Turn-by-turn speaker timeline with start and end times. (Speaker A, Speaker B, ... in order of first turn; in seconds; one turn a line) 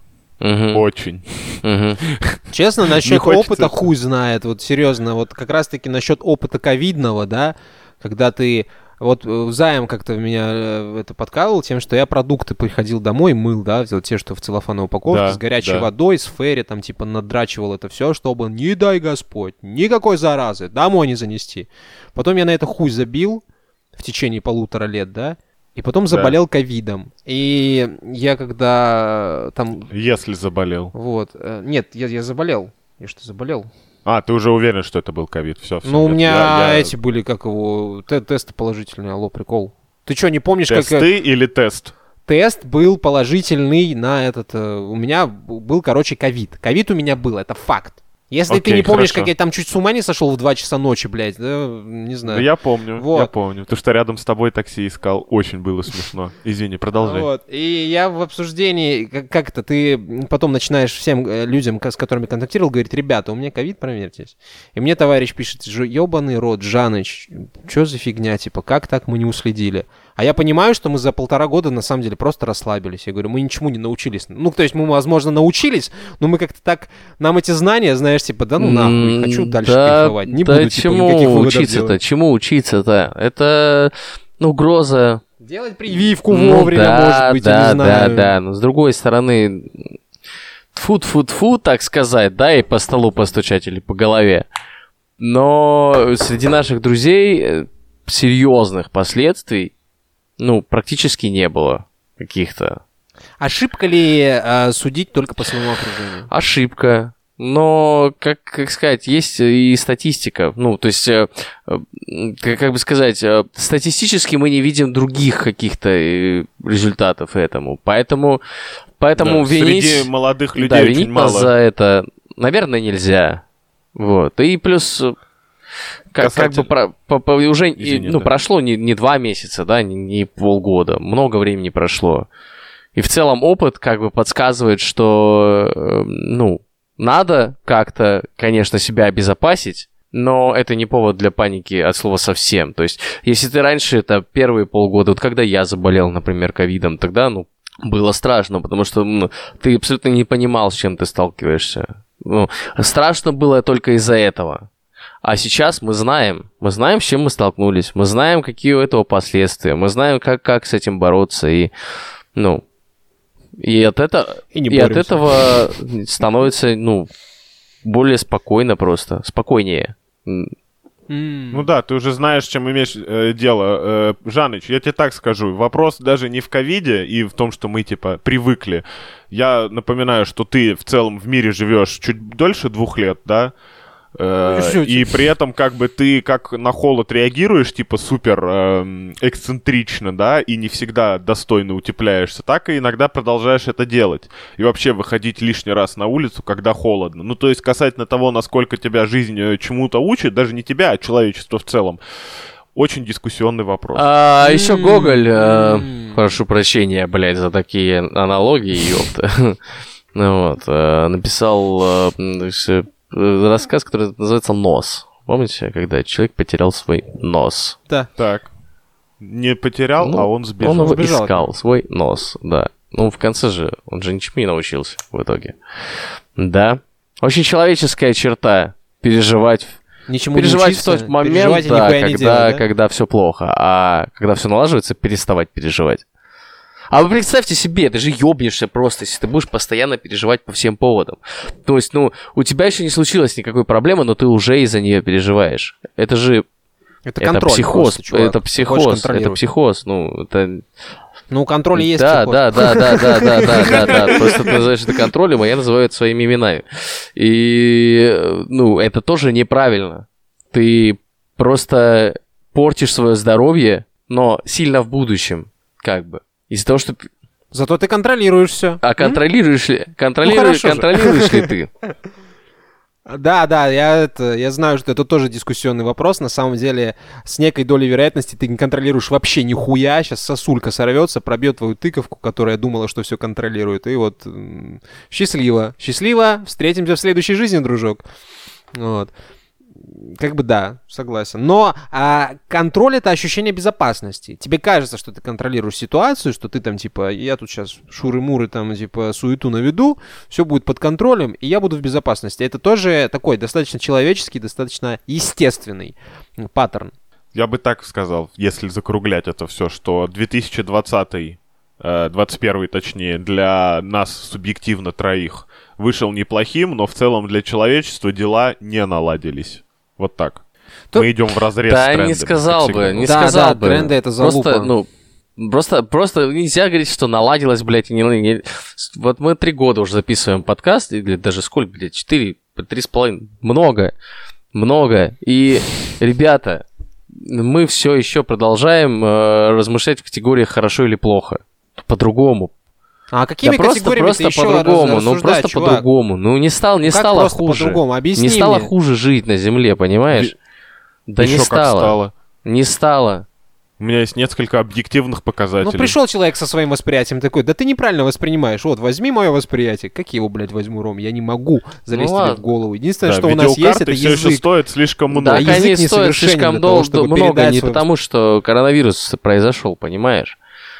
Speaker A: 0.4-0.9
Speaker B: 0.7-2.4
Speaker A: 1.6-2.0
Speaker C: 2.5-23.4
Speaker B: 3.0-3.9
Speaker B: 15.1-15.9
Speaker C: 24.0-29.9
Speaker B: 26.1-26.4
Speaker B: 29.9-30.9
Speaker C: 30.9-33.7
Speaker B: 34.0-37.0
Speaker C: 35.9-41.1
Speaker B: 40.7-41.9
Speaker C: 42.3-53.3
Speaker B: 48.5-49.3
Speaker B: 52.3-57.3
Speaker C: 57.0-82.0
Speaker A: 78.6-85.2
Speaker C: 85.4-88.3
Speaker A: 86.3-90.0
Speaker A: 90.7-94.5
Speaker A: 95.2-99.7
Speaker A: 100.4-102.8
Speaker C: 103.4-106.3
Speaker A: 106.3-118.4
Speaker A: 119.0-123.4
Speaker B: 119.2-121.5
Speaker A: 124.0-125.2
Speaker A: 126.1-132.3
Speaker B: 126.2-126.7
Speaker B: 127.8-128.3
Speaker A: 132.9-154.7
Speaker A: 155.2-161.7
Speaker A: 162.4-162.6
Speaker A: 163.6-167.1
Speaker C: 164.5-165.6
Speaker A: 167.8-170.5
Speaker C: 171.1-171.7
Speaker B: 171.5-183.5
Speaker B: 184.2-202.0
Speaker C: 184.4-185.2
Speaker B: 202.7-204.1
Speaker A: 203.9-209.6
Speaker C: 204.4-206.2
Speaker A: 210.1-217.8
Speaker B: 218.2-218.5
Speaker B: 219.2-221.0
Speaker A: 220.0-229.8
Speaker C: 220.8-221.4
Speaker C: 230.1-232.6
Speaker A: 230.4-236.0
Speaker A: 236.9-246.4
Speaker C: 247.1-249.4
Speaker A: 247.2-250.7
Speaker C: 251.3-254.6
Speaker A: 251.8-267.1
Speaker C: 267.5-269.2
Speaker A: 268.8-271.7
Speaker C: 270.2-271.5
Speaker C: 273.1-288.0
Speaker C: 288.8-289.1
Speaker C: 289.8-306.9
Speaker B: 307.3-320.4
Speaker B: 320.9-323.2
Speaker A: 321.7-333.9
Speaker C: 323.0-324.7
Speaker A: 334.5-342.5
Speaker C: 343.1-345.9
Speaker A: 343.4-350.4
Speaker C: 346.9-348.7
Speaker A: 351.1-353.3
Speaker B: 351.2-352.1
Speaker B: 353.8-356.0
Speaker C: 355.6-364.4
Speaker A: 361.9-362.4
Speaker B: 363.0-365.6
Speaker A: 365.1-370.4
Speaker C: 365.3-367.8